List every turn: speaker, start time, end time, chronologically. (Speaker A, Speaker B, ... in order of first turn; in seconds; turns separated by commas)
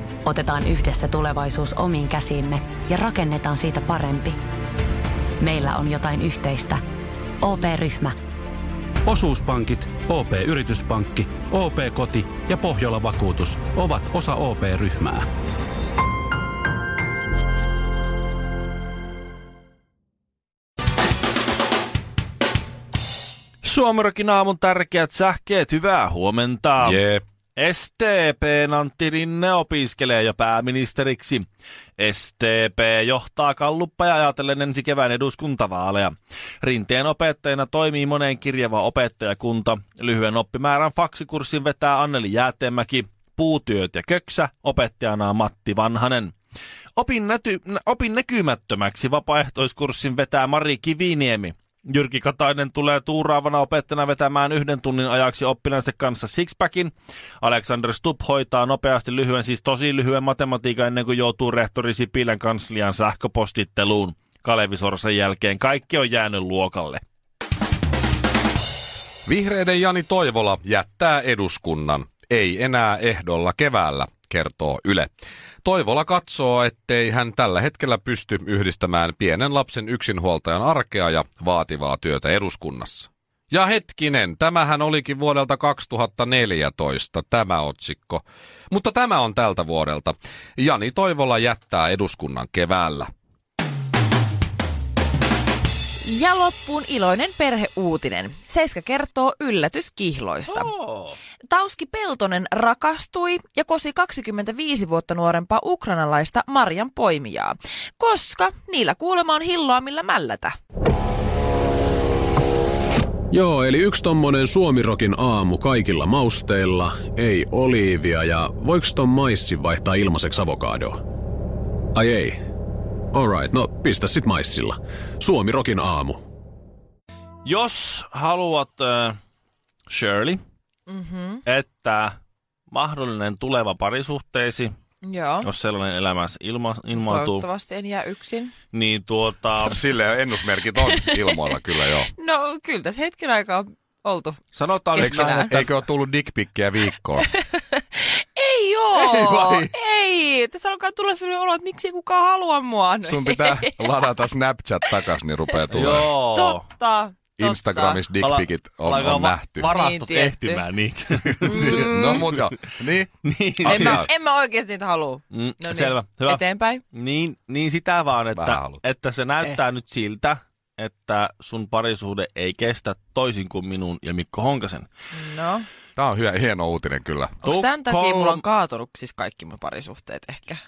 Speaker A: 0.3-4.4, Speaker A: 5.4-6.8, Speaker A: 7.4-8.2, Speaker B: 9.1-15.3, Speaker C: 23.6-27.0, Speaker D: 26.8-27.2, Speaker C: 27.6-46.3, Speaker C: 47.0-67.0, Speaker D: 69.3-75.1, Speaker D: 75.6-93.1, Speaker E: 96.0-100.7, Speaker C: 100.5-101.2, Speaker E: 101.5-110.5, Speaker F: 113.3-121.0, Speaker F: 122.0-122.4, Speaker F: 123.1-126.2, Speaker C: 127.5-129.2, Speaker C: 129.9-130.4, Speaker E: 130.9-131.4, Speaker C: 131.4-132.2, Speaker C: 132.7-134.7, Speaker E: 135.0-135.5, Speaker C: 135.4-137.4, Speaker E: 137.0-138.5, Speaker C: 138.7-139.8, Speaker D: 139.6-142.1, Speaker E: 140.9-141.6, Speaker E: 142.1-144.4, Speaker C: 144.5-145.7, Speaker E: 144.9-145.6, Speaker D: 145.0-147.3, Speaker E: 147.2-153.8, Speaker D: 149.0-149.7, Speaker D: 153.1-156.1, Speaker E: 155.7-158.0, Speaker C: 155.7-156.6, Speaker D: 157.4-159.8, Speaker C: 158.2-162.6, Speaker E: 159.7-160.6, Speaker D: 161.3-164.1, Speaker E: 161.4-162.3, Speaker C: 163.2-164.1, Speaker E: 163.7-166.8, Speaker C: 165.3-174.9, Speaker D: 168.4-168.8, Speaker E: 175.1-175.7, Speaker D: 176.0-177.4, Speaker E: 177.4-180.6, Speaker C: 177.4-178.4